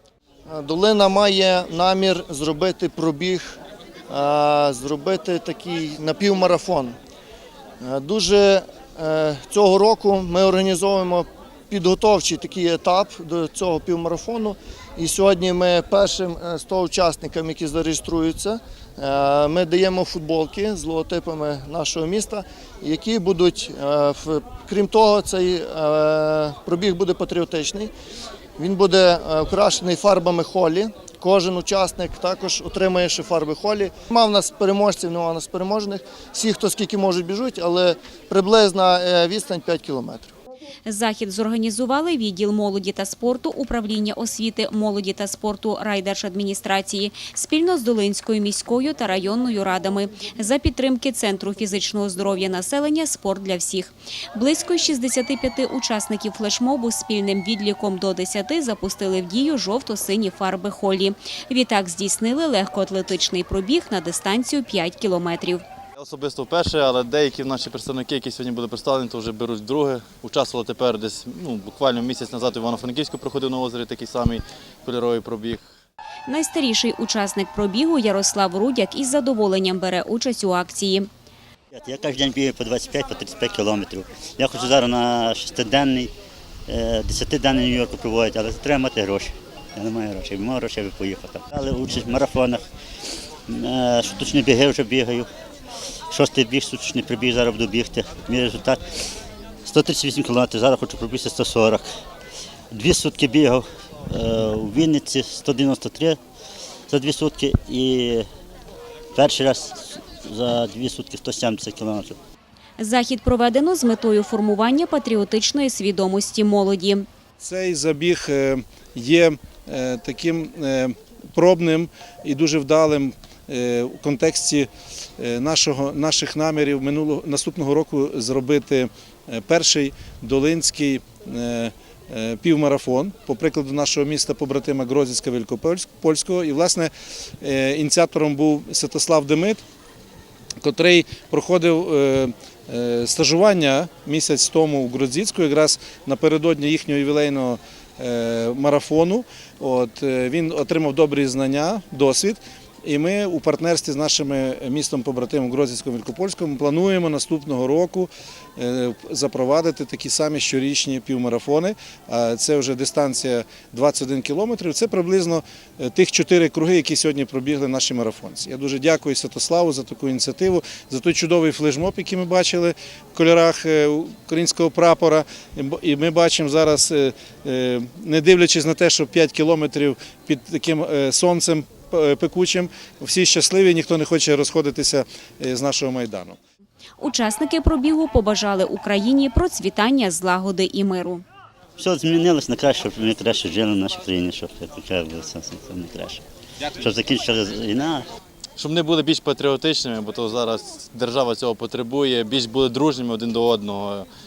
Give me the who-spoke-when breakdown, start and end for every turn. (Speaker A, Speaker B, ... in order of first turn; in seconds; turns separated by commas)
Speaker A: 0.5-3.6, Speaker A: 4.1-7.0, Speaker A: 7.8-27.9, Speaker A: 28.6-40.3, Speaker B: 40.9-65.6, Speaker C: 66.0-75.6, Speaker B: 76.3-81.1, Speaker D: 81.7-86.1, Speaker D: 86.7-92.6, Speaker D: 93.5-95.2, Speaker D: 96.1-98.8, Speaker D: 99.7-101.8, Speaker D: 102.7-106.2, Speaker D: 106.9-108.2, Speaker D: 109.2-109.7, Speaker D: 110.2-112.2, Speaker B: 112.8-117.0, Speaker E: 117.4-139.6, Speaker E: 140.6-186.4, Speaker B: 187.0-191.2, Speaker D: 191.8-196.2, Speaker D: 196.8-198.0, Speaker C: 198.6-204.1